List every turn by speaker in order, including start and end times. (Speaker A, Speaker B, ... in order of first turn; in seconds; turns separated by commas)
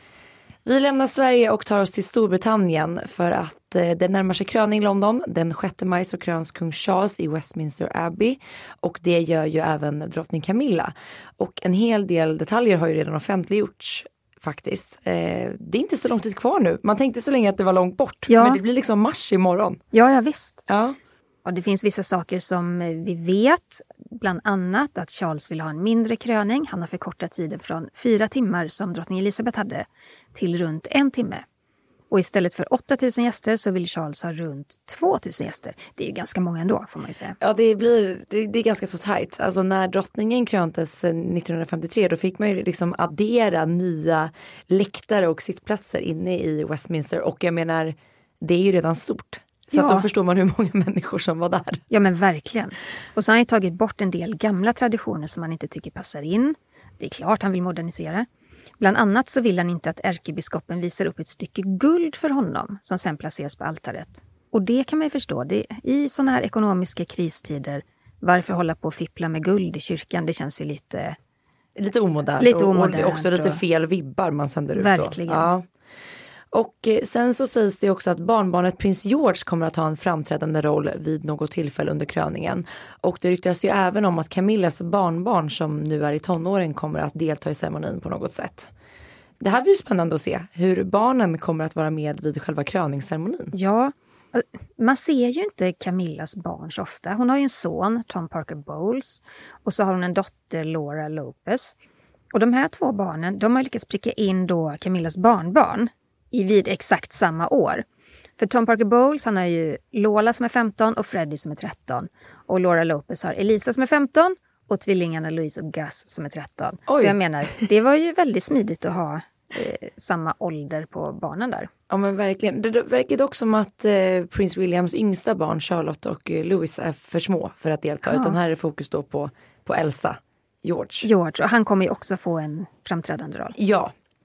Speaker A: 0.6-19.8, Speaker B: 18.3-18.6, Speaker B: 19.9-20.6, Speaker A: 20.7-21.0, Speaker B: 21.4-31.4, Speaker B: 32.1-37.4, Speaker A: 37.4-51.8, Speaker B: 49.7-50.1, Speaker B: 51.9-58.3, Speaker B: 58.8-71.2, Speaker A: 71.8-75.7, Speaker B: 72.4-73.6, Speaker B: 74.8-75.5, Speaker A: 76.5-88.7, Speaker A: 89.4-93.5, Speaker B: 93.5-101.7, Speaker B: 102.3-107.8, Speaker B: 108.4-121.7, Speaker A: 116.9-117.6, Speaker A: 121.9-131.1, Speaker B: 128.1-128.3, Speaker B: 131.0-133.6, Speaker A: 133.6-133.9